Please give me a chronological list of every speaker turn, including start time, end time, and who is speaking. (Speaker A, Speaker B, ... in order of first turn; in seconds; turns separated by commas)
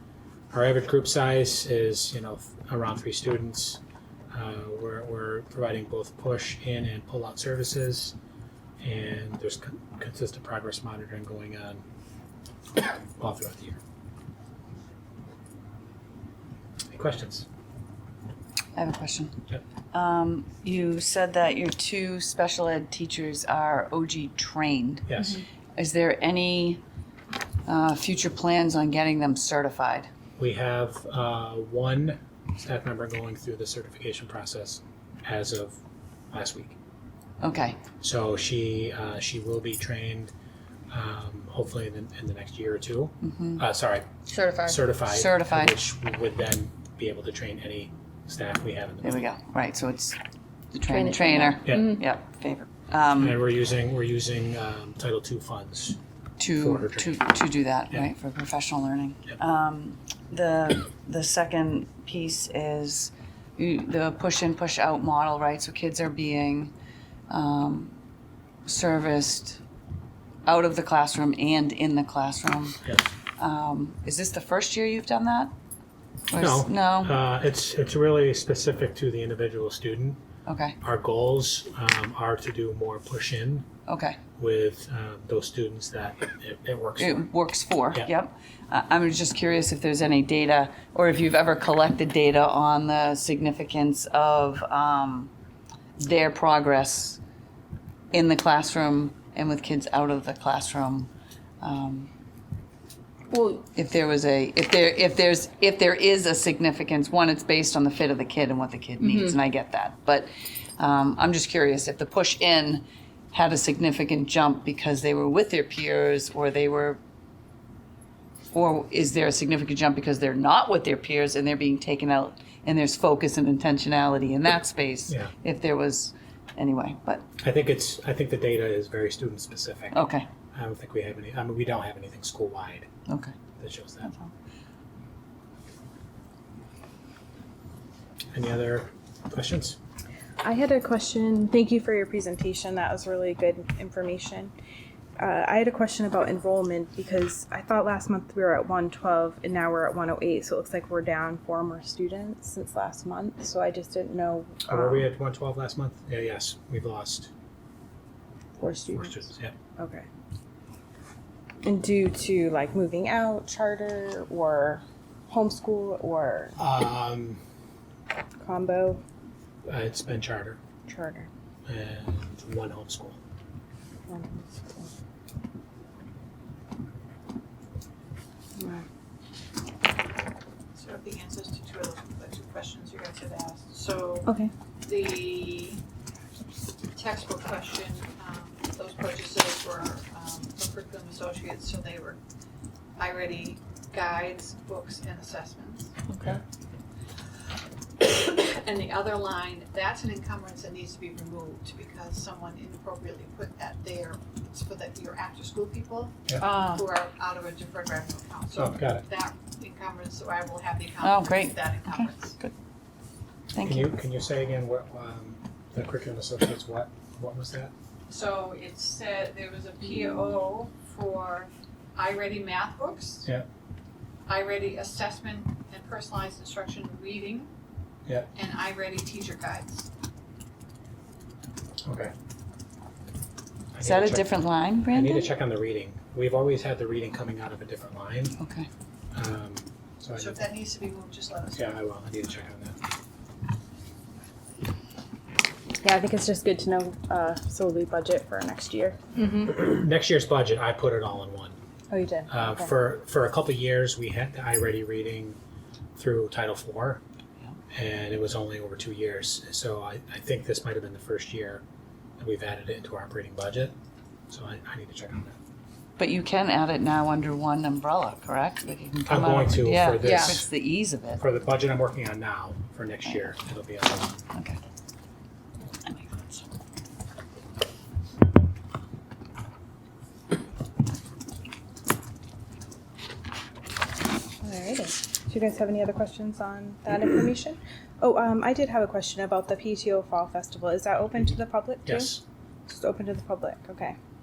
Speaker A: 0.5-3.8, Speaker A: 4.3-8.1, Speaker A: 8.8-11.8, Speaker A: 12.8-13.8, Speaker A: 16.9-17.4, Speaker B: 18.7-19.4, Speaker B: 19.9-25.1, Speaker A: 25.1-25.4, Speaker B: 25.8-26.8, Speaker B: 27.6-30.1, Speaker A: 30.4-35.8, Speaker A: 36.3-36.8, Speaker B: 37.4-37.8, Speaker A: 38.0-40.3, Speaker A: 40.9-49.3, Speaker B: 43.2-43.6, Speaker B: 45.0-45.8, Speaker B: 49.0-50.2, Speaker B: 50.7-53.4, Speaker A: 51.6-52.0, Speaker A: 53.1-56.0, Speaker B: 56.4-66.7, Speaker A: 56.5-57.2, Speaker B: 67.3-67.9, Speaker B: 68.7-69.6, Speaker B: 70.5-72.8, Speaker A: 72.8-73.1, Speaker B: 73.4-75.5, Speaker B: 76.3-77.2, Speaker A: 76.3-80.2, Speaker B: 80.5-80.8, Speaker A: 80.8-83.7, Speaker B: 83.9-84.2, Speaker A: 84.4-87.3, Speaker B: 87.0-95.3, Speaker B: 96.0-97.2, Speaker B: 98.1-102.1, Speaker C: 103.3-103.6, Speaker B: 103.7-117.0, Speaker C: 109.0-109.3, Speaker B: 118.5-127.3, Speaker A: 125.1-125.3, Speaker A: 127.4-132.9, Speaker B: 129.9-130.2, Speaker B: 133.1-133.3, Speaker A: 133.6-134.1, Speaker B: 134.0-134.3, Speaker A: 138.3-139.8, Speaker C: 140.4-144.5, Speaker C: 145.2-155.1, Speaker A: 154.7-157.3, Speaker C: 158.6-159.2, Speaker A: 158.9-159.5, Speaker C: 159.8-160.1, Speaker C: 161.6-166.6, Speaker A: 166.6-167.4, Speaker C: 168.4-169.0, Speaker A: 169.7-170.6, Speaker C: 170.9-171.3, Speaker A: 171.7-173.2, Speaker C: 174.1-174.9, Speaker C: 178.6-178.8, Speaker D: 180.7-185.8, Speaker C: 184.2-184.5, Speaker D: 186.9-192.2, Speaker D: 192.9-196.0, Speaker D: 198.0-212.3, Speaker A: 208.5-209.0, Speaker B: 211.0-212.5, Speaker B: 213.5-213.9, Speaker A: 213.6-217.7, Speaker D: 218.1-223.2, Speaker D: 224.2-227.5, Speaker D: 228.3-229.9, Speaker A: 231.8-232.1, Speaker A: 233.7-238.4, Speaker B: 233.8-235.3, Speaker B: 238.4-238.7, Speaker A: 239.1-240.5, Speaker D: 240.1-241.7, Speaker A: 241.5-242.8, Speaker C: 245.8-249.6, Speaker A: 249.3-251.6, Speaker C: 251.9-252.7, Speaker A: 252.3-255.4, Speaker A: 255.9-257.0, Speaker A: 257.7-261.6, Speaker A: 262.2-263.7, Speaker A: 264.3-265.4, Speaker B: 266.0-271.2, Speaker A: 269.1-270.5, Speaker A: 271.2-274.2, Speaker B: 274.3-274.6, Speaker B: 275.8-276.4, Speaker C: 284.4-293.9, Speaker A: 291.9-292.2